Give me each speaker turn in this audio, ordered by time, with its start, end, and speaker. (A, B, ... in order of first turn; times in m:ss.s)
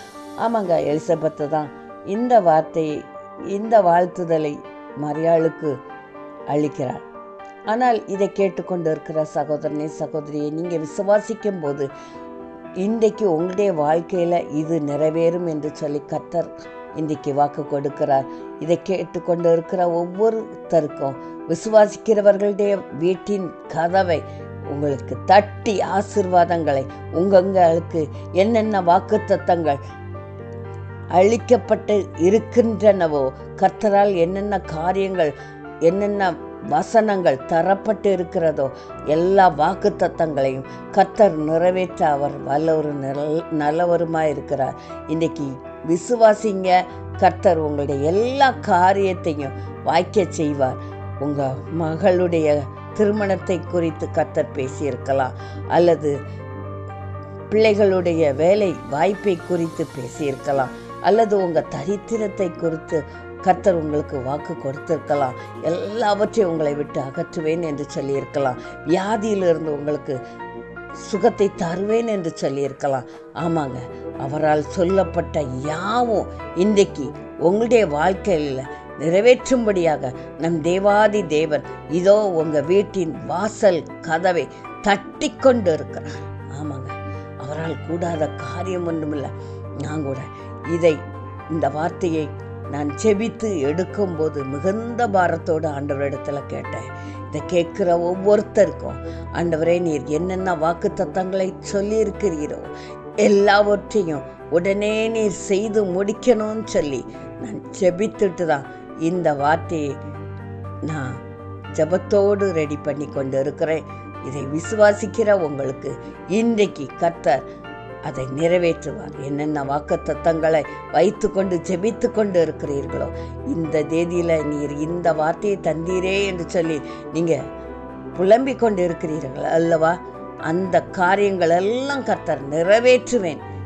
0:00.4-0:05.8 A
0:06.5-0:07.0 A
0:07.7-0:11.9 A
0:12.8-0:29.8 A
0:31.1-0:35.3 A
0:35.8-0:56.2 A
0:57.5-1:10.2 A
1:11.0-1:31.0 A
1:31.5-1:42.7 A
1:43.2-1:50.0 A
1:50.8-1:51.2 A
1:51.7-1:57.4 A
1:58.0-2:07.4 A
2:08.1-2:13.4 A